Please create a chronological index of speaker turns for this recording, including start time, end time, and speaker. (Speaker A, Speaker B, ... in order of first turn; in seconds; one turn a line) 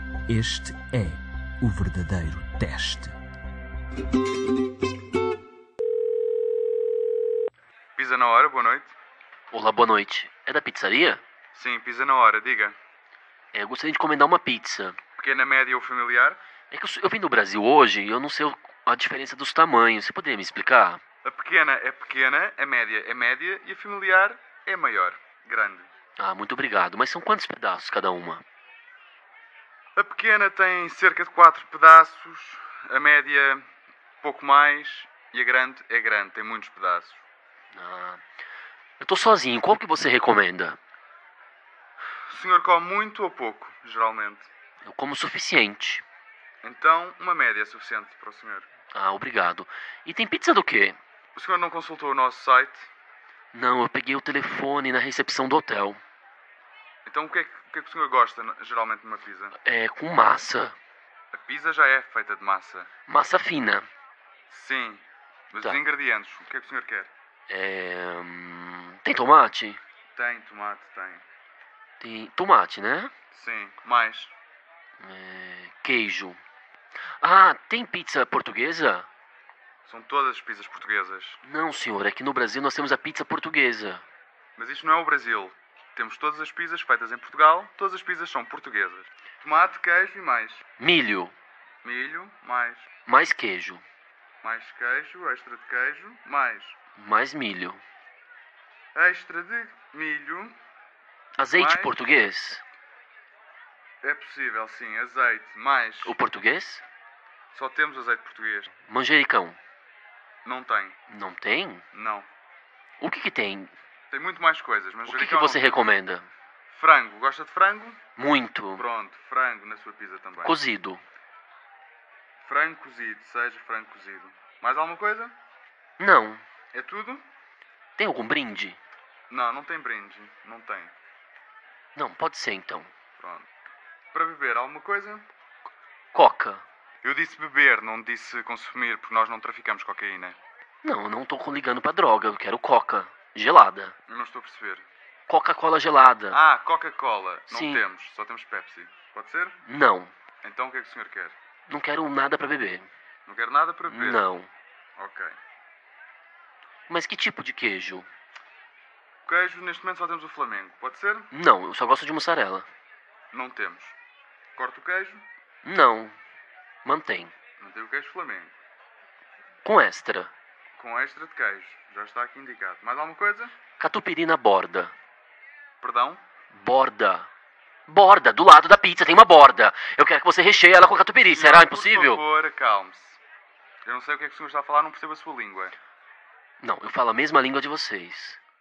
Speaker A: 0.3-3.1
Speaker B: 8.0-8.9
Speaker C: 9.5-11.2
Speaker B: 11.5-12.8
Speaker C: 13.5-15.0
Speaker B: 15.2-16.4
Speaker C: 16.7-21.0
Speaker B: 21.2-25.9
Speaker C: 26.2-28.4
Speaker B: 30.0-33.7
Speaker B: 34.2-37.2
Speaker C: 37.8-38.2
Speaker C: 39.0-40.8
Speaker B: 42.3-44.5
Speaker C: 44.9-46.0
Speaker B: 46.6-48.7
Speaker C: 48.9-51.0
Speaker B: 51.4-52.9
Speaker C: 53.5-56.0
Speaker B: 57.0-59.6
Speaker C: 59.6-60.8
Speaker B: 61.3-62.9
Speaker C: 63.1-63.9
Speaker B: 64.5-67.1
Speaker C: 67.5-69.8
Speaker B: 70.2-71.2
Speaker C: 72.0-73.1
Speaker B: 73.3-74.3
Speaker C: 75.0-76.4
Speaker C: 77.2-79.1
Speaker B: 79.8-81.4
Speaker C: 81.5-84.0
Speaker B: 84.6-90.6
Speaker C: 90.8-91.3
Speaker B: 91.8-92.9
Speaker C: 93.1-93.8
Speaker B: 94.4-96.8
Speaker C: 97.0-97.8
Speaker B: 99.0-100.6
Speaker C: 101.4-102.6
Speaker B: 101.5-102.1
Speaker B: 104.0-106.2
Speaker C: 106.0-106.8
Speaker B: 107.5-108.7
Speaker C: 108.9-109.6
Speaker B: 110.5-111.0
Speaker C: 111.1-111.8
Speaker B: 111.9-112.3
Speaker C: 113.0-113.7
Speaker B: 114.1-115.8
Speaker C: 115.1-116.3
Speaker B: 116.7-118.0
Speaker C: 118.2-118.8
Speaker B: 118.8-120.6
Speaker C: 120.4-121.0
Speaker B: 122.4-125.3
Speaker C: 126.0-126.4
Speaker B: 126.7-127.2
Speaker C: 128.0-128.8
Speaker B: 129.3-130.9
Speaker C: 131.9-132.9
Speaker B: 133.2-133.5
Speaker B: 134.1-135.2
Speaker C: 136.1-136.6
Speaker B: 137.0-140.4
Speaker C: 140.8-143.9
Speaker B: 144.1-144.9
Speaker C: 145.3-146.4
Speaker B: 146.3-149.6
Speaker C: 147.5-147.8
Speaker C: 149.7-150.1
Speaker B: 150.4-151.3
Speaker C: 151.7-152.9
Speaker B: 153.3-154.3
Speaker C: 153.9-154.5
Speaker B: 155.0-155.4
Speaker C: 156.9-158.1
Speaker B: 159.2-161.3
Speaker C: 161.3-162.7
Speaker B: 163.3-163.9
Speaker B: 164.6-165.2
Speaker C: 165.6-166.2
Speaker C: 166.8-167.3
Speaker B: 167.6-168.6
Speaker C: 169.6-170.3
Speaker B: 170.8-173.5
Speaker C: 173.8-174.9
Speaker B: 175.8-176.2
Speaker C: 176.5-177.3
Speaker C: 177.9-182.2
Speaker B: 181.3-183.2
Speaker B: 183.8-185.8
Speaker C: 186.6-188.4